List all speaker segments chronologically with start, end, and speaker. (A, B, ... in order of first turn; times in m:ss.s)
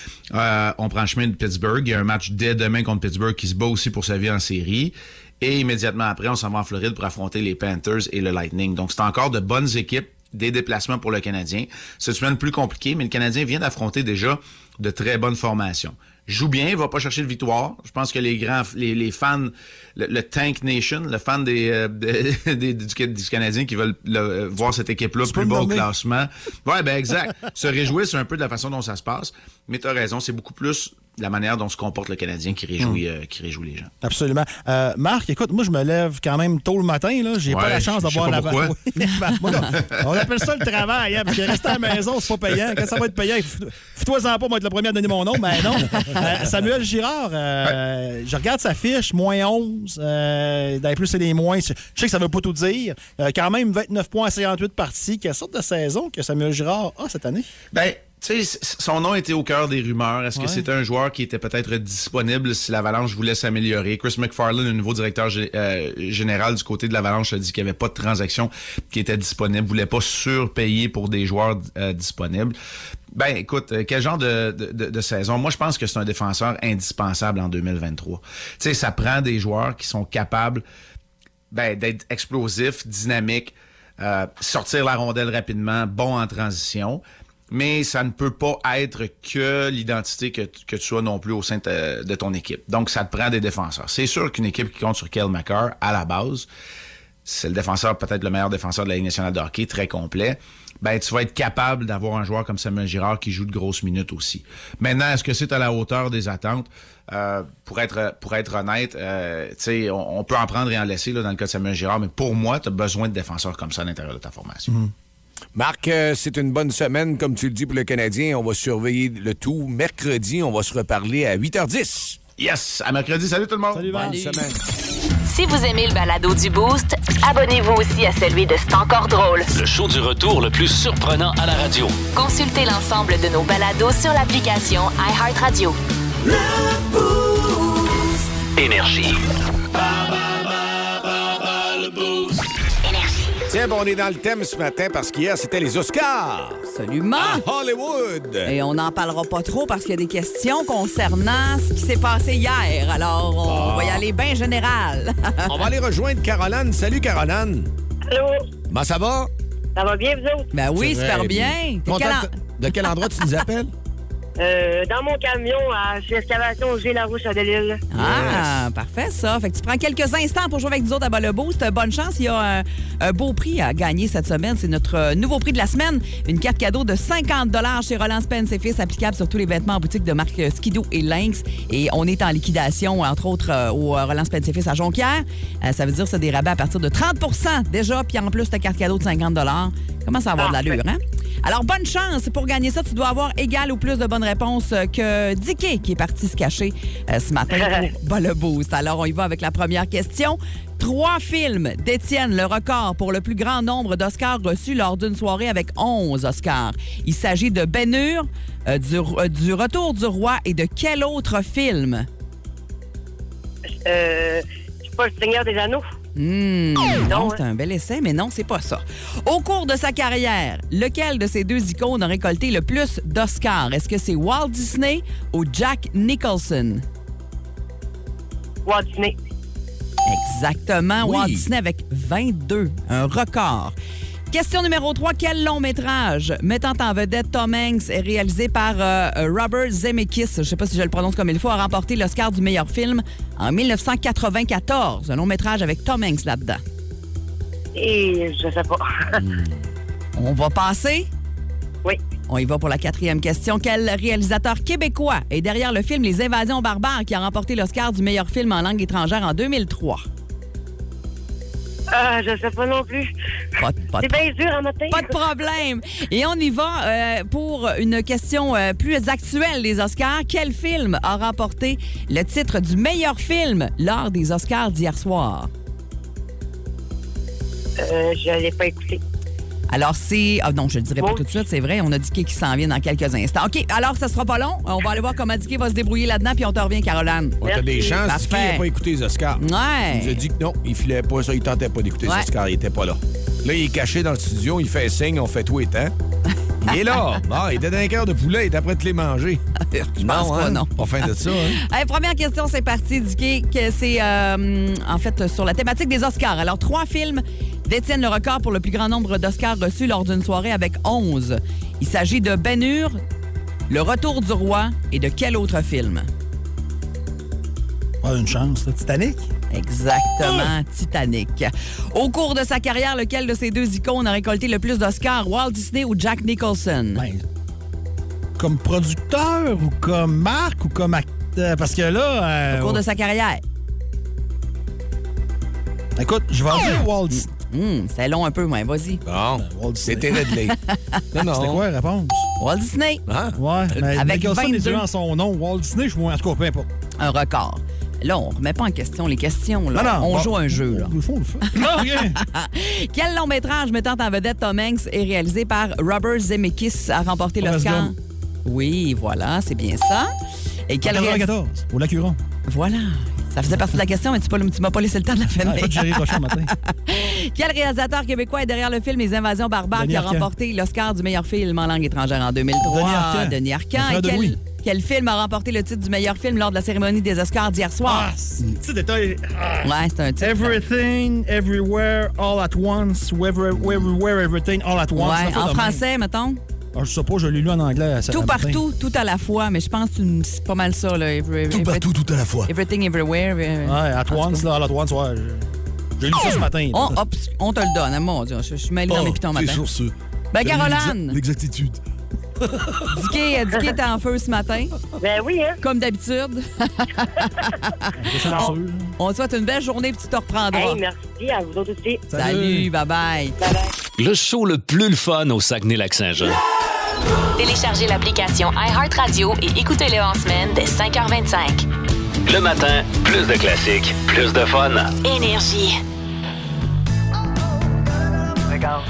0:00.3-0:33.9 A
0:25.2-0:25.9 B
0:34.0-0:57.5 B
0:37.5-0:38.7 A
0:39.6-0:40.1 A
0:57.7-1:12.6 A
1:00.3-1:00.6 B
1:13.1-1:20.6 A
1:21.5-1:36.5 A
1:37.2-1:54.7 A
1:55.5-2:02.2 C
2:02.4-2:04.0 A
2:03.7-2:04.2 B
2:03.9-2:04.6 C
2:04.0-2:04.4 D
2:05.2-2:09.5 E
2:09.5-2:12.0 F
2:12.1-2:15.8 E
2:18.6-2:19.2 F
2:22.8-2:23.3 E
2:23.5-2:26.6 C
2:26.7-2:27.4 D
2:27.2-2:28.5 C
2:28.4-2:35.5 D
2:33.4-2:34.0 C
2:35.5-2:37.7 C
2:38.1-2:38.4 G
2:38.7-2:39.3 C
2:39.8-2:40.5 G
2:40.5-2:42.2 D
2:40.8-2:43.7 C
2:44.4-2:47.8 G
2:47.9-3:32.1 D
2:47.9-2:48.6 C
3:10.4-3:10.8 G
3:33.8-3:35.9 G
3:36.2-3:46.8 D
3:37.0-3:37.4 G
3:48.6-3:49.2 G
3:50.0-3:53.7 D
3:51.0-3:51.5 C
3:54.3-4:06.6 D
4:07.7-4:09.1 G
4:10.2-4:11.1 D
4:12.3-4:20.0 D
4:21.9-4:23.1 G
4:23.6-4:24.2 D
4:24.0-4:25.1 G
4:24.9-4:35.5 D
4:37.8-4:39.0 G
4:39.7-4:48.6 D
4:41.0-4:41.4 G
4:47.4-4:55.9 C
4:47.4-4:47.8 G
4:49.4-4:50.2 D
4:56.6-4:59.4 C
4:56.7-4:57.0 D
4:59.7-5:13.0 D
5:00.0-5:01.6 C
5:13.7-5:16.1 D
5:18.0-5:19.3 B
5:19.5-5:27.0 D
5:20.2-5:20.5 B
5:26.9-5:27.2 B
5:28.4-5:32.8 B
5:32.5-5:33.4 D
5:36.0-5:37.3 B
5:37.1-5:39.0 D
5:39.0-5:40.6 C
5:39.4-5:40.3 B
5:40.7-5:41.0 D
5:41.1-5:41.6 C
5:41.3-5:42.3 B
5:42.4-5:43.0 D
5:43.1-5:43.4 C
5:43.3-5:46.7 B
5:43.9-5:44.8 D
5:47.0-5:50.9 D
5:49.7-5:52.2 B
5:51.5-5:57.9 D
5:57.4-5:57.9 B
5:58.4-6:00.1 D
6:00.7-6:01.2 D
6:00.8-6:02.2 B
6:02.5-6:18.1 D
6:05.4-6:06.5 B
6:09.7-6:10.3 B
6:12.6-6:14.4 B
6:17.8-6:25.8 B
6:19.6-6:20.6 D
6:24.9-6:26.4 D
6:26.7-6:28.6 B
6:28.1-6:34.4 D
6:31.5-6:32.5 C
6:33.6-6:35.5 B
6:36.0-6:36.9 B
6:36.7-6:39.6 D
6:38.9-6:41.8 C
6:40.3-6:41.2 D
6:42.9-6:44.7 D
6:45.0-6:45.6 G
6:45.6-6:50.8 D
6:48.0-6:48.9 B
6:50.5-6:52.0 G
6:52.1-6:52.7 B
6:52.1-6:53.3 D
6:54.0-6:56.4 F
6:57.4-7:01.6 E
7:02.2-7:04.9 F
7:05.0-7:05.8 E